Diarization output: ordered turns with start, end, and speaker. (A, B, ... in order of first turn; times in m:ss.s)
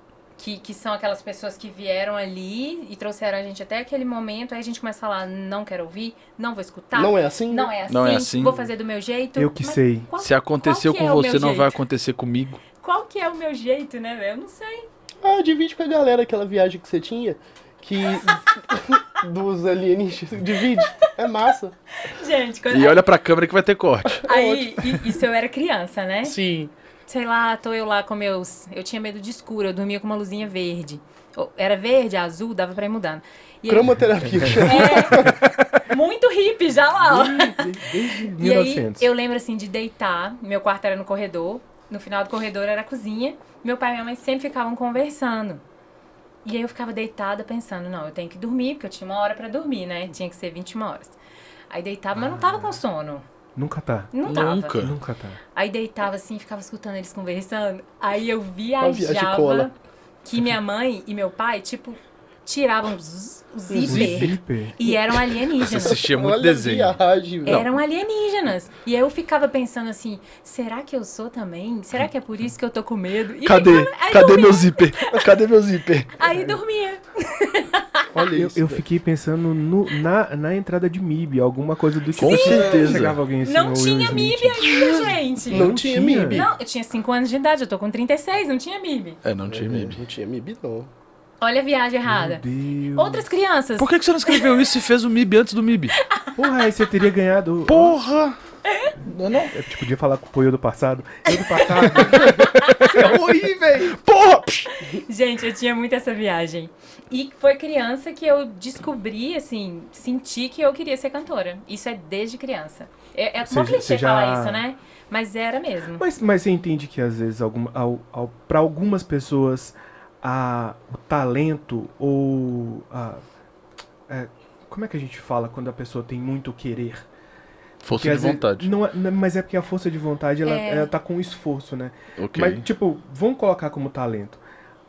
0:00.4-0:11.8 A
0:06.9-0:07.7 B
0:07.9-0:08.6 C
0:09.4-0:10.1 D
0:10.2-0:12.6 C
0:12.8-0:14.9 A
0:15.2-0:21.8 B
0:22.0-0:23.0 A
0:22.7-0:24.2 C
0:24.1-0:24.8 B
0:24.2-0:26.4 A
0:26.2-0:26.7 B
0:27.1-0:45.6 A
0:33.7-0:35.4 B
0:34.2-0:35.4 D
0:37.0-0:39.1 D
0:46.4-0:51.2 A
0:51.7-0:53.2 A
0:52.2-0:52.8 D
0:53.6-0:54.1 D
0:54.1-0:54.8 A
0:54.3-0:55.0 C
0:54.7-0:55.4 D
0:55.6-1:06.0 A
0:58.8-0:59.7 B
1:03.7-1:05.2 B
1:03.9-1:04.8 D
1:05.6-1:07.7 C
1:05.7-1:07.7 B
1:07.5-1:15.3 A
1:13.4-1:16.1 C
1:16.2-1:18.1 A
1:16.2-1:16.6 D
1:18.1-1:18.8 B
1:18.3-1:26.5 D
1:22.2-1:23.2 C
1:22.2-1:22.8 A
1:23.4-1:25.7 A
1:24.6-1:25.1 C
1:25.5-1:26.5 B
1:26.3-1:29.2 A
1:29.2-1:30.0 C
1:29.5-1:30.9 B
1:31.4-1:32.4 A
1:32.1-1:33.3 D
1:33.0-1:34.5 A
1:33.8-1:36.0 C
1:36.0-1:36.3 A
1:36.4-1:38.0 D
1:37.7-1:38.4 C
1:38.7-1:38.9 A
1:39.0-1:39.5 C
1:39.5-1:44.0 D
1:41.8-1:42.8 A
1:42.1-1:44.7 C
1:44.8-1:56.1 A
1:53.5-1:54.6 D
1:56.0-2:03.2 D
2:04.1-2:07.1 D
2:07.8-2:08.7 C
2:07.9-2:14.4 D
2:10.4-2:10.9 A
2:12.2-2:12.6 C